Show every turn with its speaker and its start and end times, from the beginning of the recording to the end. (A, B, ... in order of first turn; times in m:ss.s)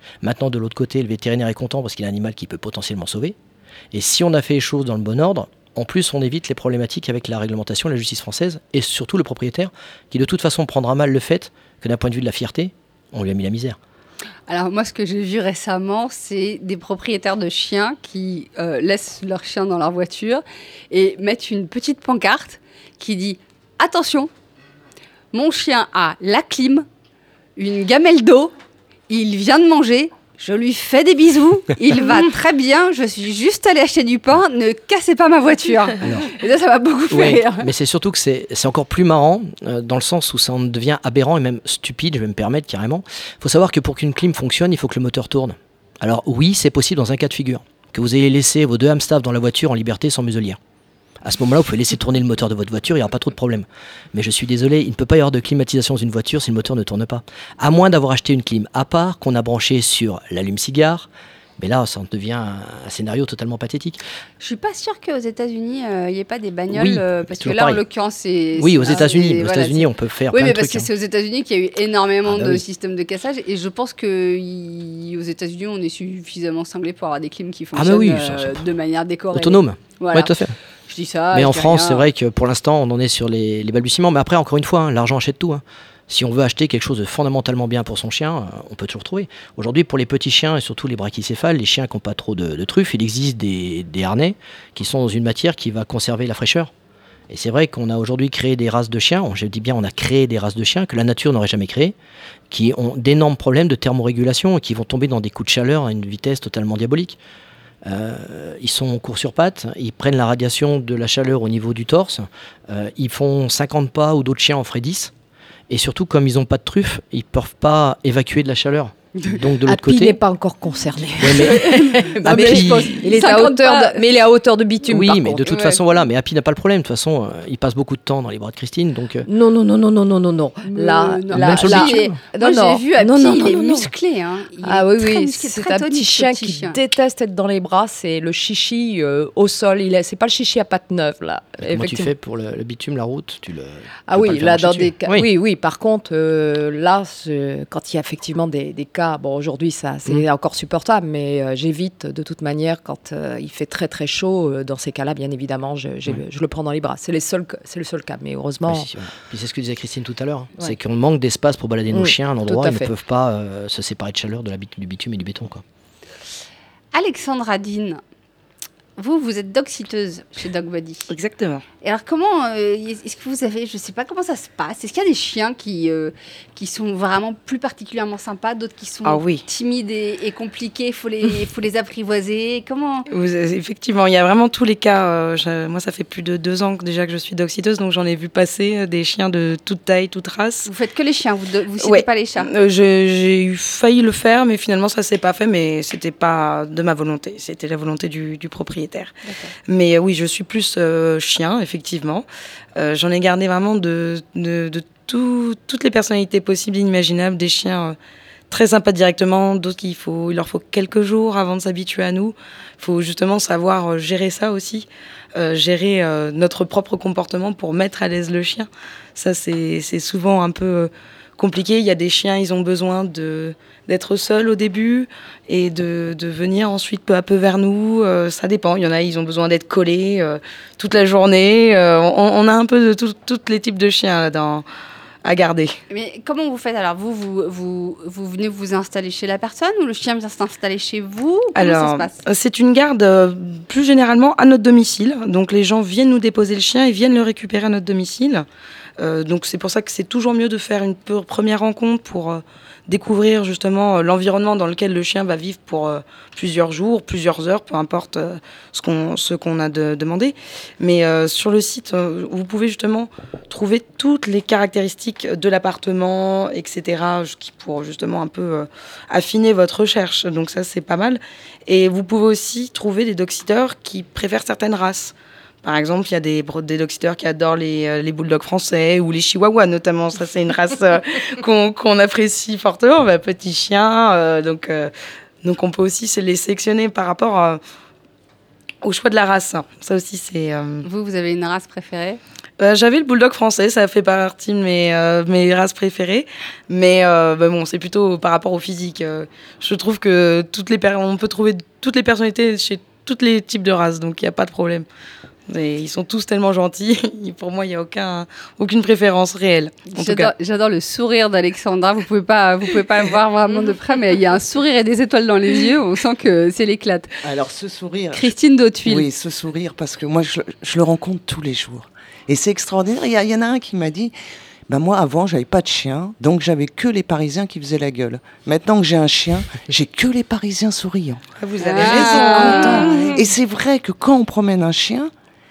0:00.2-0:03.3 A
0:03.9-0:13.8 A
0:14.5-0:24.3 B
0:25.3-0:26.8 B
0:27.6-0:28.5 B
0:29.1-0:37.7 B
0:36.0-0:36.3 A
0:37.1-0:50.6 A
0:51.2-1:04.0 A
1:04.4-1:20.3 B
1:06.7-1:07.8 A
1:08.6-1:10.9 A
1:12.2-1:12.6 A
1:17.7-1:18.6 A
1:19.3-1:20.5 A
1:20.9-1:22.1 B
1:21.3-1:36.7 A
1:37.3-1:41.9 A
1:42.5-1:47.2 A
1:47.8-1:55.1 A
1:55.7-2:00.2 A
1:59.6-2:05.6 C
2:01.2-2:03.5 A
2:01.3-2:04.0 B
2:04.9-2:09.3 A
2:05.5-2:05.8 B
2:09.2-2:13.9 C
2:10.6-2:16.8 B
2:11.3-2:12.2 A
2:14.6-2:22.1 C
2:21.6-2:25.3 A
2:24.1-2:38.9 C
2:38.7-2:45.6 A
2:41.9-2:42.9 C
2:46.9-2:48.0 B
2:49.0-2:51.1 B
2:51.1-2:51.6 D
2:51.8-3:03.1 B
2:59.0-2:59.4 D
3:03.1-3:10.7 D
3:10.6-3:12.5 B
3:11.8-3:19.1 D
3:19.2-3:19.5 B
3:19.6-3:28.0 D
3:28.5-3:54.6 D
3:55.2-3:55.7 D
3:55.9-4:02.2 B
4:01.5-4:08.4 D
4:09.0-4:44.9 D
4:45.4-4:47.6 D
4:48.8-4:50.8 D
4:50.8-4:52.2 B
4:52.6-5:04.8 D
5:05.5-5:10.3 D
5:09.9-5:17.1 B
5:17.2-5:24.1 E
5:18.1-5:19.0 B
5:24.7-5:31.2 E
5:31.4-5:33.2 D
5:31.6-5:33.2 B
5:31.8-5:35.1 E